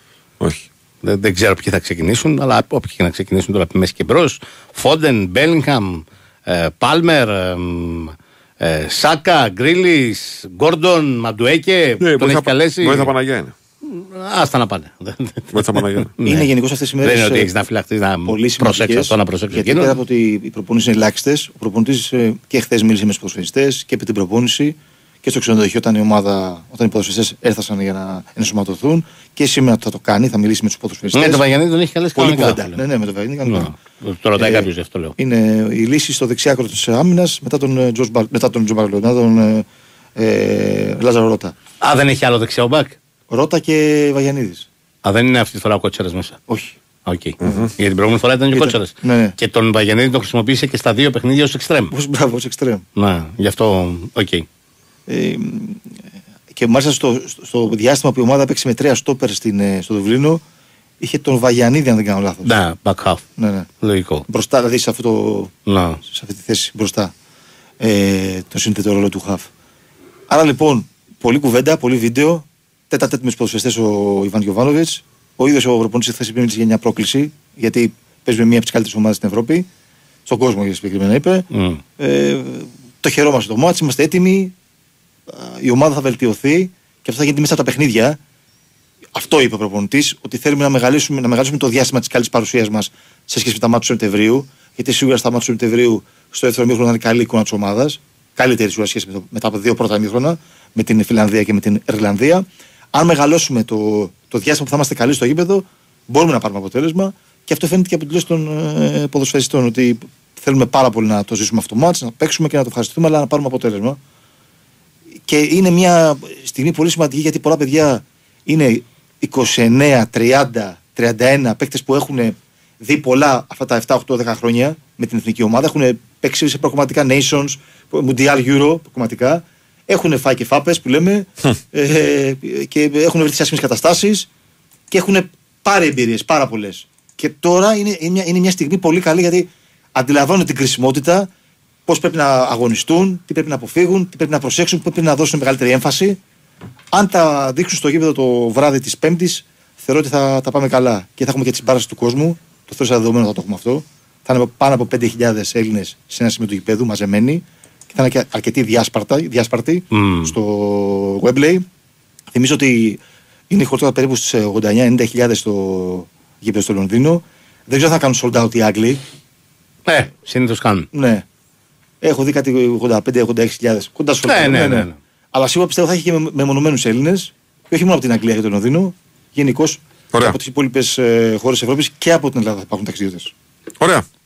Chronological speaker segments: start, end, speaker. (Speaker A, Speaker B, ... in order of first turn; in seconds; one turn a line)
Speaker A: 0.4-0.7
Speaker B: 1.0-13.1
Speaker A: 12.0-13.5
Speaker B: 13.8-16.5
Speaker A: 15.5-16.1
Speaker C: 16.2-17.5
Speaker B: 17.0-20.0
Speaker C: 18.2-31.4
Speaker B: 31.1-32.8
Speaker C: 32.2-33.7
Speaker B: 33.5-35.1
Speaker C: 34.4-39.7
Speaker C: 40.2-41.5
Speaker B: 41.8-43.0
Speaker C: 43.3-44.7
Speaker B: 45.0-46.4
Speaker C: 46.5-46.8
Speaker B: 47.1-51.9
Speaker C: 47.4-47.7
Speaker A: 47.4-47.7
Speaker C: 48.5-49.4
Speaker C: 51.9-52.8
Speaker B: 53.0-54.5
Speaker C: 55.1-55.8
Speaker C: 56.5-60.4
Speaker C: 61.0-62.5
Speaker B: 62.4-63.2
Speaker C: 63.4-63.7
Speaker B: 63.8-64.2
Speaker C: 64.3-65.5
Speaker B: 65.7-66.0
Speaker C: 66.0-67.1
Speaker C: 67.8-69.5
Speaker C: 70.3-79.7
Speaker C: 80.3-81.5
Speaker B: 81.5-81.8
Speaker C: 82.0-84.5
Speaker C: 85.3-88.2
Speaker C: 89.2-114.0
Speaker C: 115.3-134.3
Speaker C: 134.9-141.3
Speaker C: 141.9-146.2
Speaker C: 146.9-161.7
Speaker B: 159.9-160.3
Speaker C: 162.3-169.0
Speaker B: 169.9-170.9
Speaker C: 170.9-171.2
Speaker C: 172.0-183.3
Speaker B: 174.2-175.0
Speaker A: 180.1-180.4